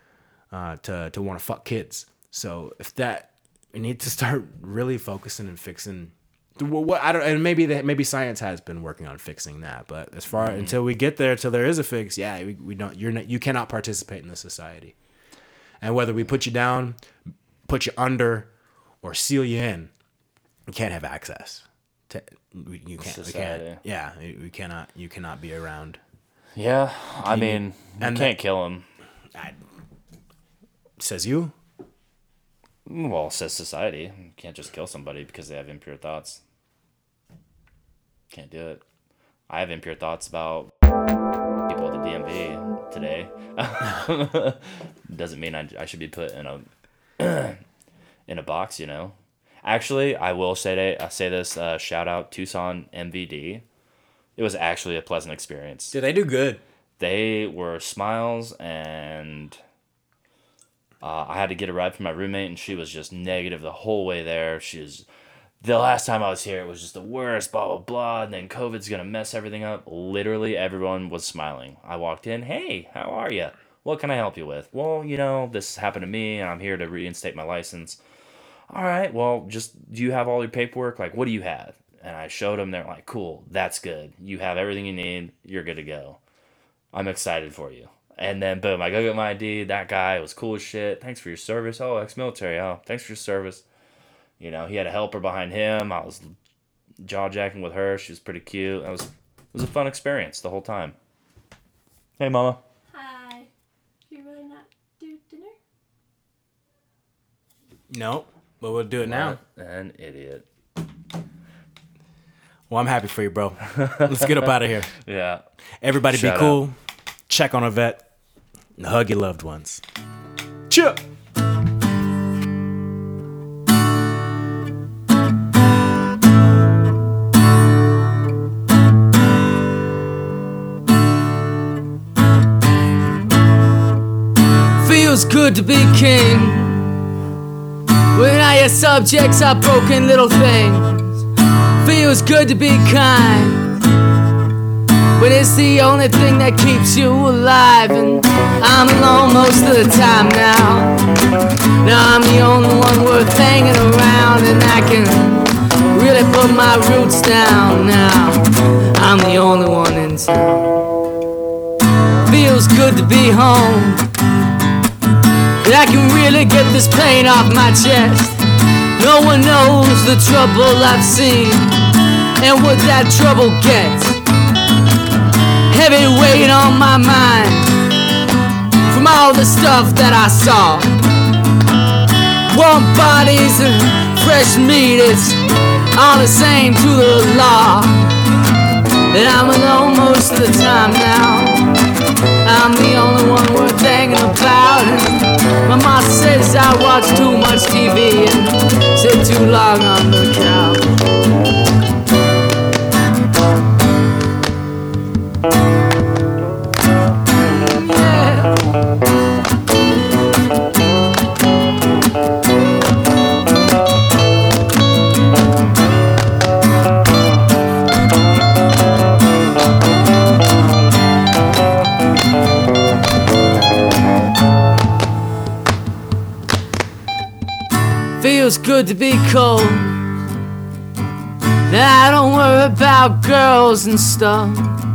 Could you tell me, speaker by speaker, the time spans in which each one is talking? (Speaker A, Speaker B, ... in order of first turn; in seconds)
Speaker A: 0.5-14.9, 15.8-17.0, 17.7-18.5, 19.0-19.9, 20.7-26.0, 27.2-28.4, 31.0-31.6, 55.9-56.6, 107.9-109.4, 112.7-114.9, 115.8-116.8, 117.3-118.0, 118.8-119.8, 120.7-121.0
Speaker B: 10.3-10.8, 23.0-23.8, 26.6-28.9, 32.9-36.4, 38.3-38.8, 39.5-40.7, 41.7-46.7, 47.2-47.6, 48.3-53.6, 54.4-56.0, 57.0-59.6, 61.0-65.1, 65.6-78.0, 78.7-86.2, 86.9-93.6, 94.4-96.3, 97.0-101.0, 102.2-102.6, 109.0-110.5, 113.8-115.4, 116.1-116.6
Speaker C: 102.9-103.5, 104.1-105.5
Speaker D: 134.8-136.9, 138.1-141.2, 141.8-143.7, 145.2-150.9, 151.8-160.8, 162.3-164.1, 165.6-168.4, 169.0-171.8, 172.4-174.2, 175.7-177.7, 178.9-181.0, 182.5-185.4, 185.9-188.0, 189.1-191.7, 192.4-200.9, 207.4-208.6, 228.2-230.0, 231.7-234.8